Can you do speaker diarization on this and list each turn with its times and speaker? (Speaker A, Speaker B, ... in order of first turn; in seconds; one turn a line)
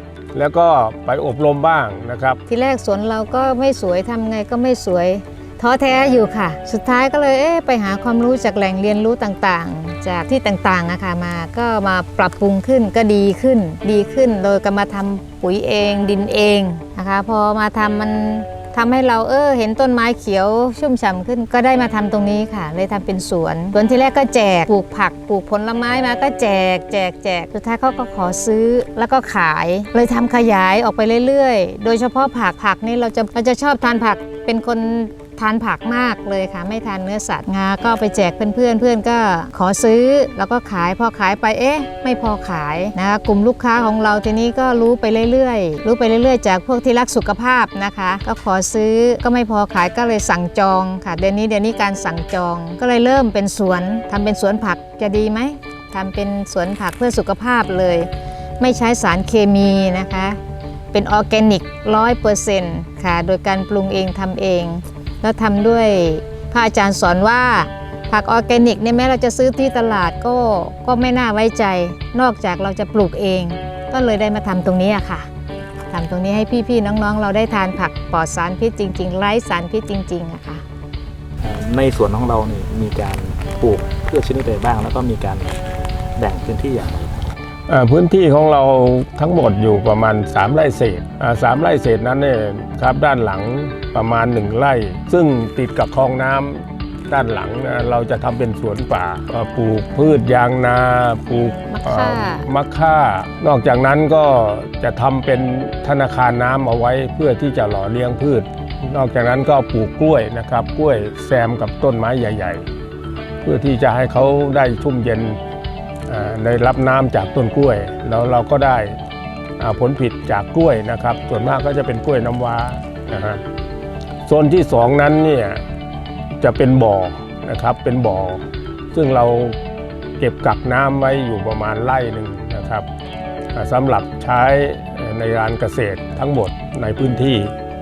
Speaker A: 0.3-2.4
Speaker B: 2.5-60.4
Speaker B: 60.9-75.3
Speaker B: 75.9-80.6
Speaker C: 81.4-87.3
Speaker A: 87.7-112.7
Speaker B: 101.7-102.5
Speaker A: 113.4-115.4
Speaker A: 116.1-119.0
Speaker A: 119.6-123.4
Speaker A: 124.3-125.6
Speaker A: 126.3-129.6
Speaker A: 130.2-132.9
Speaker A: 133.5-137.5